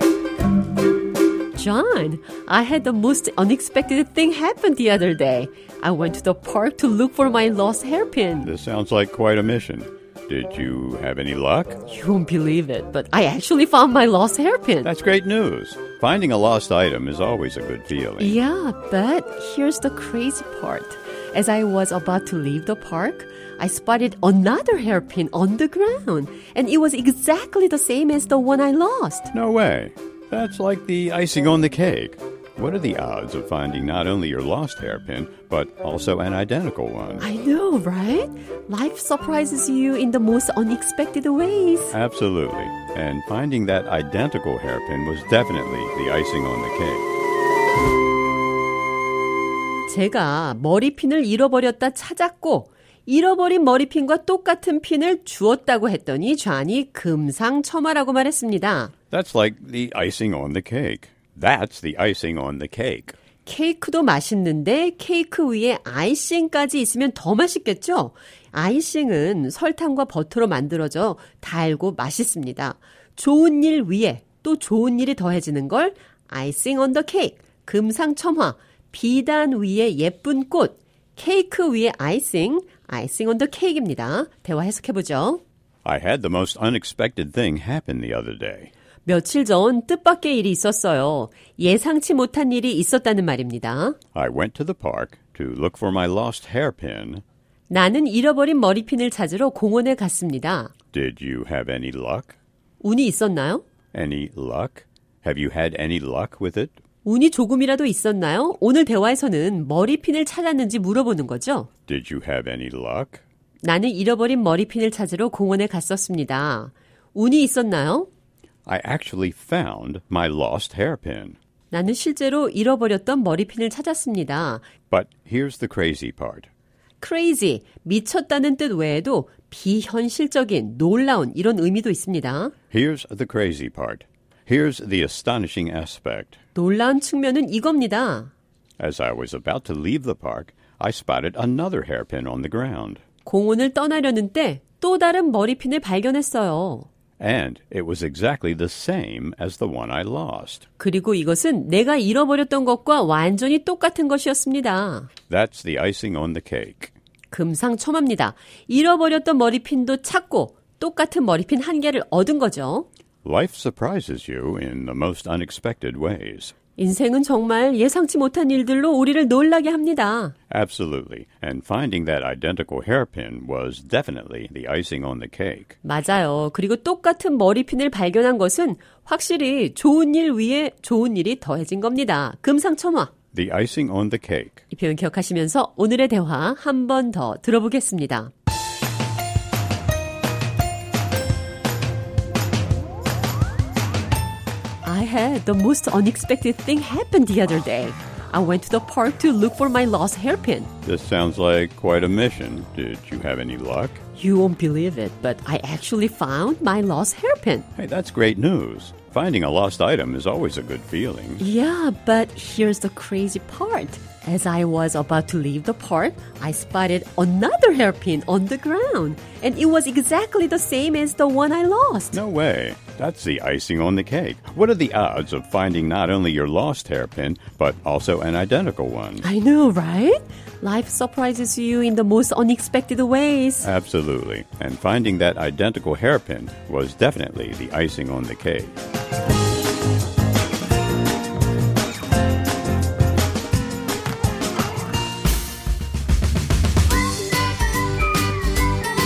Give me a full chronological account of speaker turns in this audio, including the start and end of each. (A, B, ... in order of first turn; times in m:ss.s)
0:01.5-0:08.5 A
0:08.4-0:11.8 B
0:11.9-0:14.9 A
0:14.8-0:18.4 B
0:18.2-0:29.3 A
0:29.3-0:37.2 B
0:37.2-0:41.9 A
0:41.9-0:47.0 B
0:49.9-0:58.9 A
0:59.1-1:03.2 B
1:03.4-1:25.4 A
1:25.8-1:28.7 B
1:29.0-1:34.0 A
1:34.1-1:37.2 B
1:37.7-1:40.7 A
1:40.9-1:42.4 B
1:42.8-1:43.6 A
1:43.9-1:46.8 B
1:47.0-1:51.7 A
1:51.9-1:53.2 B
1:53.6-1:58.1 A
1:58.7-2:01.4 B
2:01.7-2:04.7 A
2:04.9-2:06.5 B
2:07.0-2:12.5 A
2:12.7-2:16.4 B
2:16.5-2:18.3 A
2:18.8-2:23.0 B
2:23.2-2:26.9 A
2:27.2-2:30.6 B
2:30.8-2:35.1 A
2:35.3-2:36.9 B
2:37.3-2:42.9 A
2:43.2-2:46.5 B
2:46.8-2:50.3 A
2:50.5-2:55.8 B
2:55.8-3:03.1 A
3:03.3-3:04.6 B
3:04.7-3:08.3 A
3:14.8-3:20.7 A
3:20.8-3:24.0 B
3:24.2-3:27.7 A
3:27.8-3:31.4 B
3:31.4-3:42.2 A
3:42.1-3:49.2 B
3:49.2-3:53.7 A
3:53.6-3:58.8 B